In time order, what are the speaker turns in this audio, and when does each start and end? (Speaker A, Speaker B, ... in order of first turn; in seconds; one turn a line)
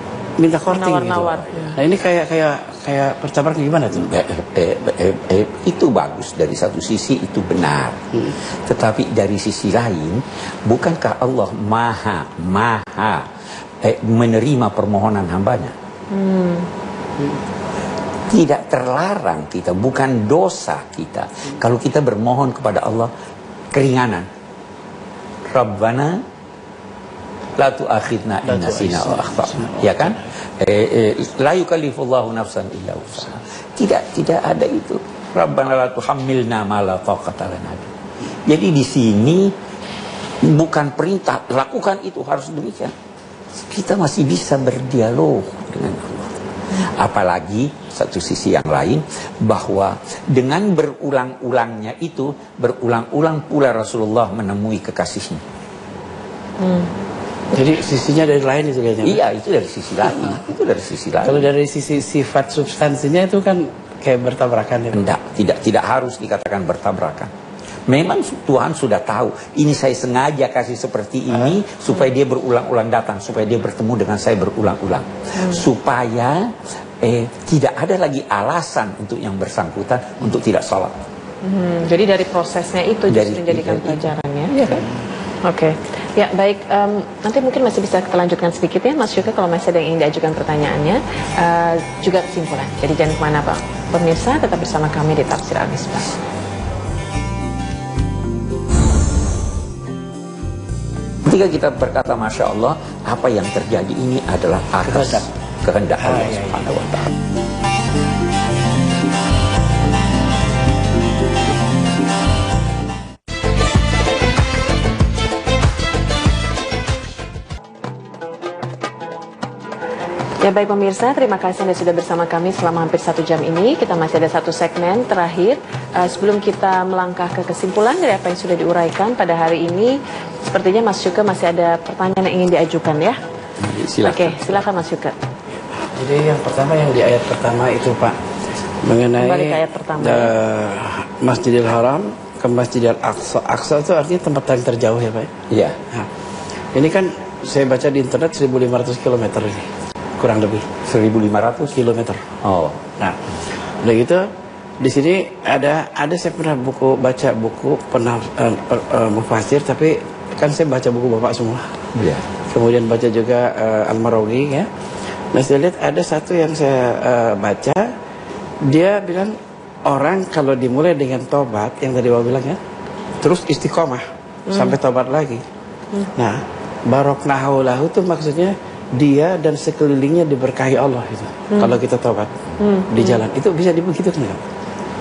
Speaker A: 0.4-4.1
Speaker B: 0.7-1.8
Speaker C: 3.9-13.3
Speaker C: 13.8-15.7
Speaker B: 16.1-16.7
Speaker C: 18.3-23.1
Speaker C: 23.7-24.3
Speaker C: 25.5-26.2
Speaker C: 27.6-37.9
Speaker A: 28.4-30.3
Speaker C: 38.5-39.5
Speaker C: 40.4-42.9
Speaker C: 43.5-55.4
Speaker B: 56.6-56.9
Speaker A: 57.5-59.2
Speaker C: 59.0-61.5
Speaker A: 61.2-65.0
Speaker C: 64.9-67.3
Speaker C: 67.9-81.0
Speaker B: 81.4-84.5
Speaker C: 83.1-84.9
Speaker B: 85.4-96.1
Speaker C: 101.2-107.1
Speaker A: 104.8-105.3
Speaker A: 106.0-106.7
Speaker B: 120.4-133.2
Speaker C: 133.6-134.6
Speaker B: 134.0-135.1
Speaker A: 135.9-138.2
Speaker A: 138.8-145.3
Speaker B: 139.2-140.3
Speaker C: 145.5-145.8
Speaker A: 146.7-149.7
Speaker A: 150.2-150.7
Speaker C: 150.8-151.8
Speaker A: 151.7-152.2
Speaker C: 152.4-152.8
Speaker A: 153.8-154.2
Speaker A: 154.8-161.9
Speaker C: 161.9-162.3
Speaker A: 162.5-164.7
Speaker A: 165.3-167.9
Speaker A: 168.6-172.6
Speaker A: 173.2-175.4
Speaker B: 174.5-174.7
Speaker A: 176.1-184.5
Speaker B: 182.6-183.2